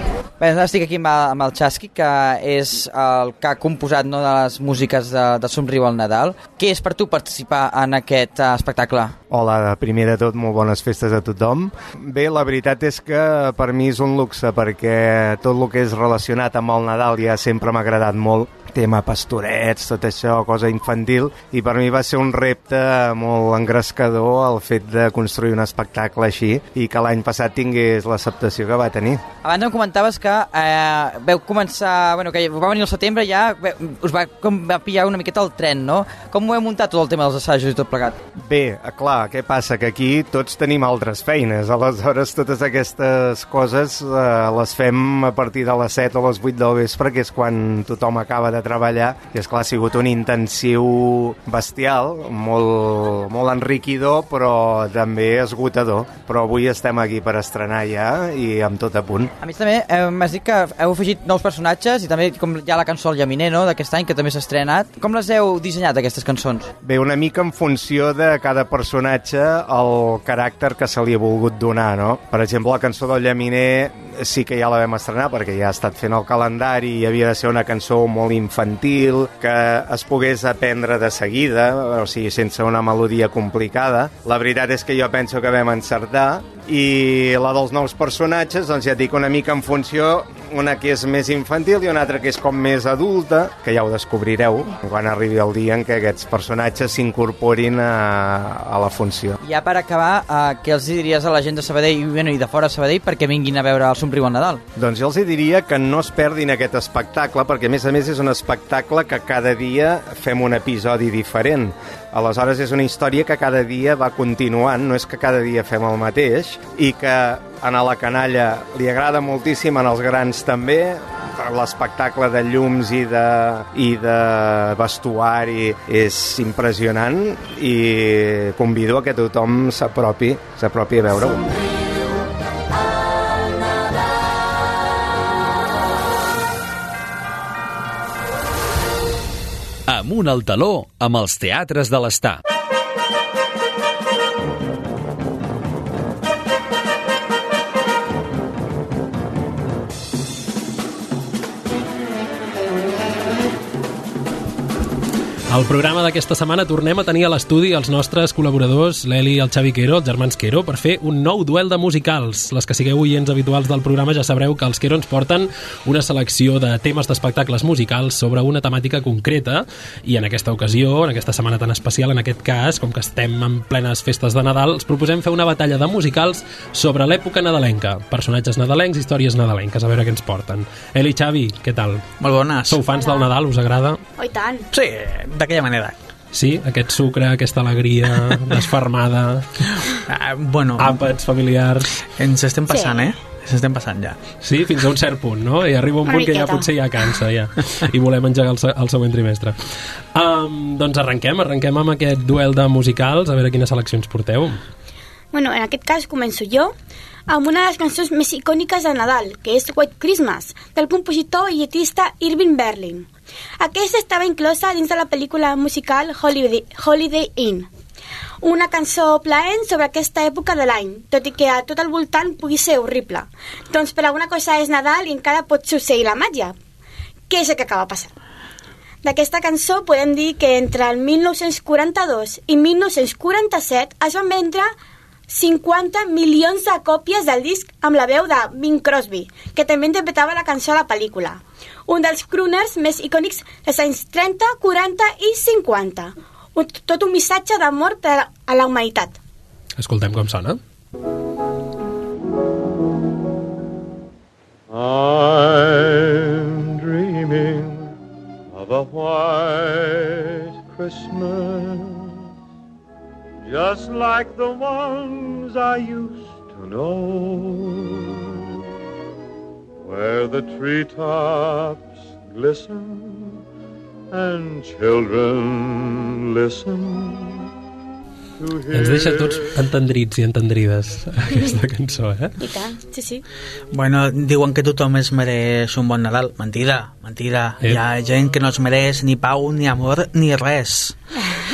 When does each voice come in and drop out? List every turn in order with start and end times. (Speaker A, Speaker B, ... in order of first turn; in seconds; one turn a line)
Speaker A: 0.4-9.2
Speaker B: 9.3-29.2
Speaker A: 29.4-38.2
Speaker B: 38.4-59.3
Speaker A: 59.4-66.7
Speaker B: 66.8-99.4
Speaker A: 99.4-104.6
Speaker B: 104.8-131.6
Speaker C: 139.9-142.4
Speaker D: 155.5-182.1
Speaker E: 182.2-182.8
Speaker D: 182.7-184.0
Speaker F: 182.9-183.3
Speaker F: 184.2-184.7
Speaker E: 184.7-185.9
Speaker D: 186.3-189.7
Speaker E: 190.1-191.0
Speaker D: 190.8-192.0
Speaker E: 192.2-194.2
Speaker F: 192.7-193.1
Speaker D: 194.4-204.6
Speaker F: 196.1-196.7
Speaker F: 205.3-206.8
Speaker F: 207.3-213.1
Speaker F: 213.6-217.7
Speaker F: 218.4-226.6
Speaker F: 227.3-228.1
Speaker F: 229.0-234.7
Speaker F: 235.3-249.2
Speaker D: 249.8-250.6
Speaker G: 254.7-257.9
Speaker G: 258.5-262.2
Speaker G: 263.4-268.4
Speaker G: 269.8-273.4
Speaker G: 274.1-277.5
Speaker G: 278.4-279.7
Speaker D: 278.7-282.4
Speaker F: 282.4-283.2
Speaker E: 283.7-291.0